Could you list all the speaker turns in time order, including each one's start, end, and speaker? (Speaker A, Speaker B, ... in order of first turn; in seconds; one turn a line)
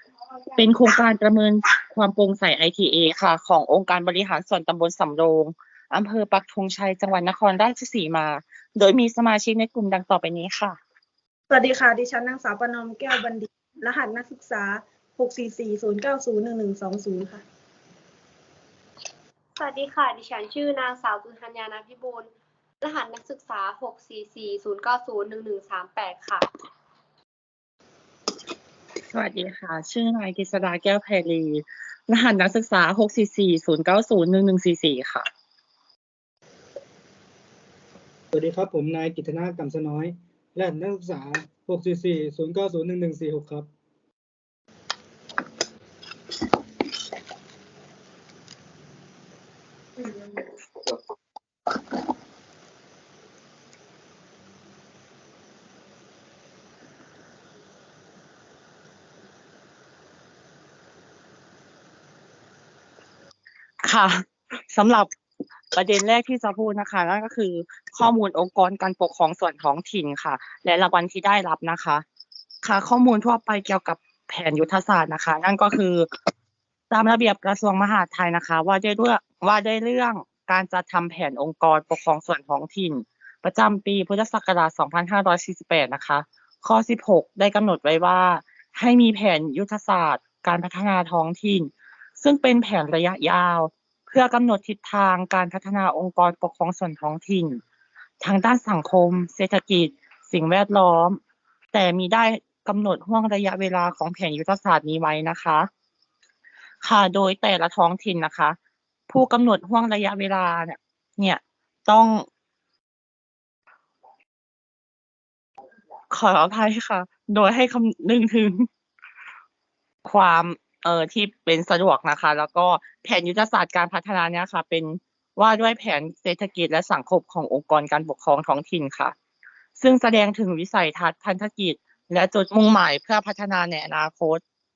Speaker A: 0.6-10.8
Speaker B: 11.5-17.4
Speaker C: 19.6-22.3
Speaker C: 22.8-26.5
Speaker A: 29.1-35.2
Speaker D: 38.3-43.7
Speaker A: 63.8-65.1
Speaker A: 65.7-72.0
Speaker A: 72.6-76.1
Speaker A: 76.9-97.6
Speaker A: 98.2-101.2
Speaker A: 101.7-105.7
Speaker A: 106.8-108.6
Speaker A: 109.1-112.3
Speaker A: 116.1-118.7
Speaker A: 120.0-129.1
Speaker A: 129.8-134.4